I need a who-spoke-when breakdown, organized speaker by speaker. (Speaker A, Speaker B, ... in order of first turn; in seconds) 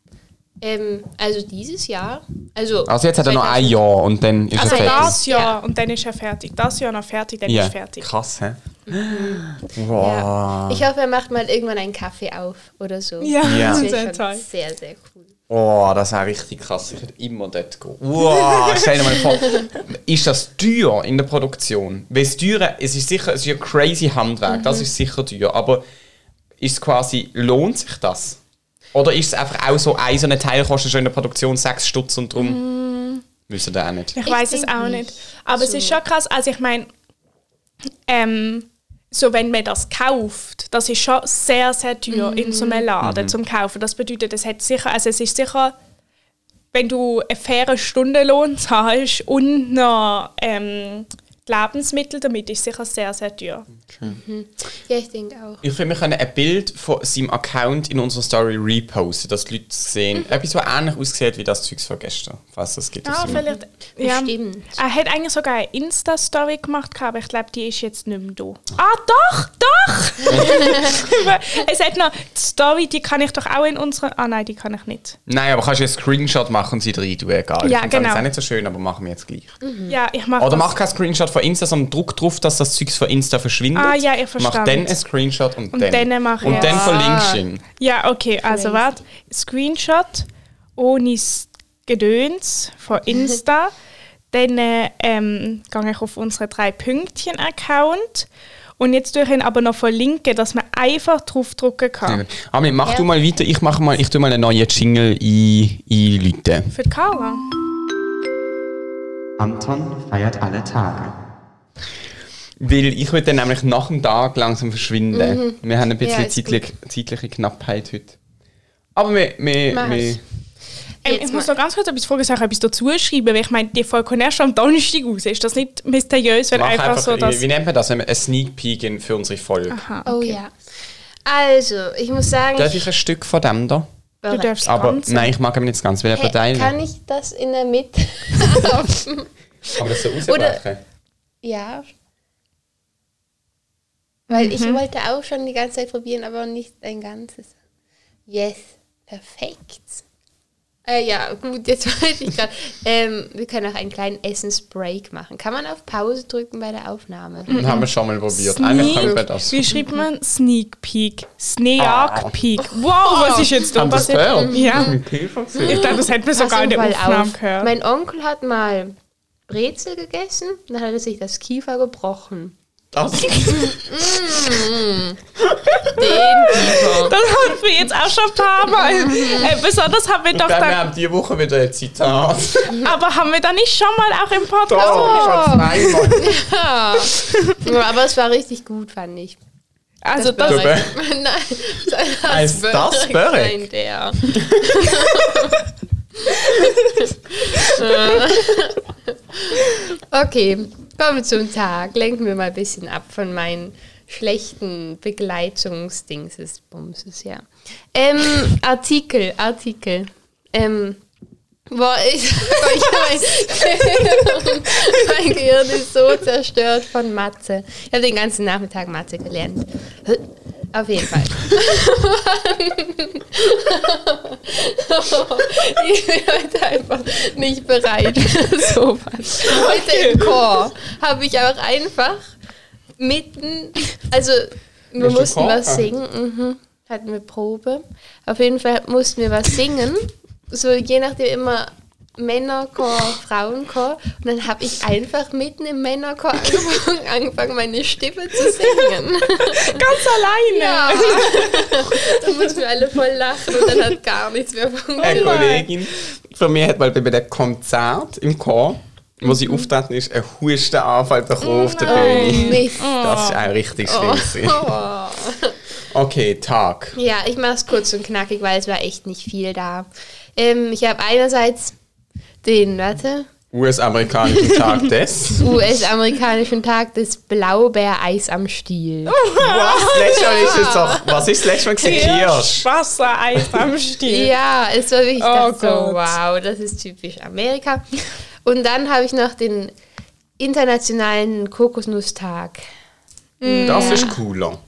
Speaker A: 0.6-3.8, 4.6-5.6, 8.9-15.3, 24.5-24.9, 34.2-36.0, 42.1-42.9, 54.0-55.6, 63.3-64.8, 70.3-71.0, 79.6-80.0, 86.4-87.4, 88.4-89.0, 115.1-116.6, 119.7-120.2, 121.0-121.6, 130.1-130.6, 131.2-132.9, 134.2-134.7, 136.1-139.3, 140.2-140.6, 141.4-141.9, 144.3-147.5, 148.3-150.0, 150.8-157.7, 158.7-159.2, 163.1-163.6, 164.3-165.0, 165.6-169.0, 169.5-172.6, 173.3-175.2, 175.9-177.3, 178.6-179.6, 184.8-189.4, 190.1-195.6, 196.2-211.0, 211.7-232.3, 233.0-255.6, 261.9-262.9, 263.9-265.6, 266.9-271.8, 272.4-273.3, 275.4-279.2, 279.9-282.2, 284.0-289.7, 290.4-292.6, 293.4-294.1
Speaker B: 2.9-5.2, 7.5-10.8, 13.4-13.9, 15.5-25.8, 26.6-28.4, 28.9-32.6, 33.5-34.2, 43.0-43.3, 53.9-54.2, 55.6-63.4, 70.3-70.8, 75.3-79.6, 80.4-87.6, 102.0-106.7, 109.4-111.2, 112.6-118.2, 119.0-120.2, 126.5-129.8, 132.6-133.9, 134.6-136.7, 139.7-140.8, 157.5-159.7, 161.8-162.4, 163.7-166.0, 172.9-174.6, 175.4-176.0, 180.3-182.9, 184.7-186.4, 190.4-191.0, 192.3-193.6, 194.2-195.3, 235.0-235.9, 255.0-264.7, 265.9-267.0, 273.5-275.7, 279.4-282.7, 293.5-294.6
Speaker C: 4.6-8.1, 13.2-14.4, 18.3-19.0, 32.4-33.2, 34.2-36.9, 38.1-45.8, 46.7-53.7, 63.0-75.2, 77.6-78.2, 79.9-80.8, 83.8-84.9, 85.7-87.0, 87.8-93.7, 94.3-98.3, 98.8-102.2, 106.7-107.5, 121.0-127.4, 129.7-130.4, 134.3-135.3, 144.3-144.8, 157.5-165.0, 165.6-167.7, 175.8-180.8, 182.8-186.1, 187.1-187.7, 190.0-190.8, 196.7-197.0, 197.7-198.2, 229.4-230.5, 249.4-252.4, 255.0-255.7, 261.4-263.5, 279.1-280.5, 281.8-284.3, 285.2-286.2, 293.4-294.2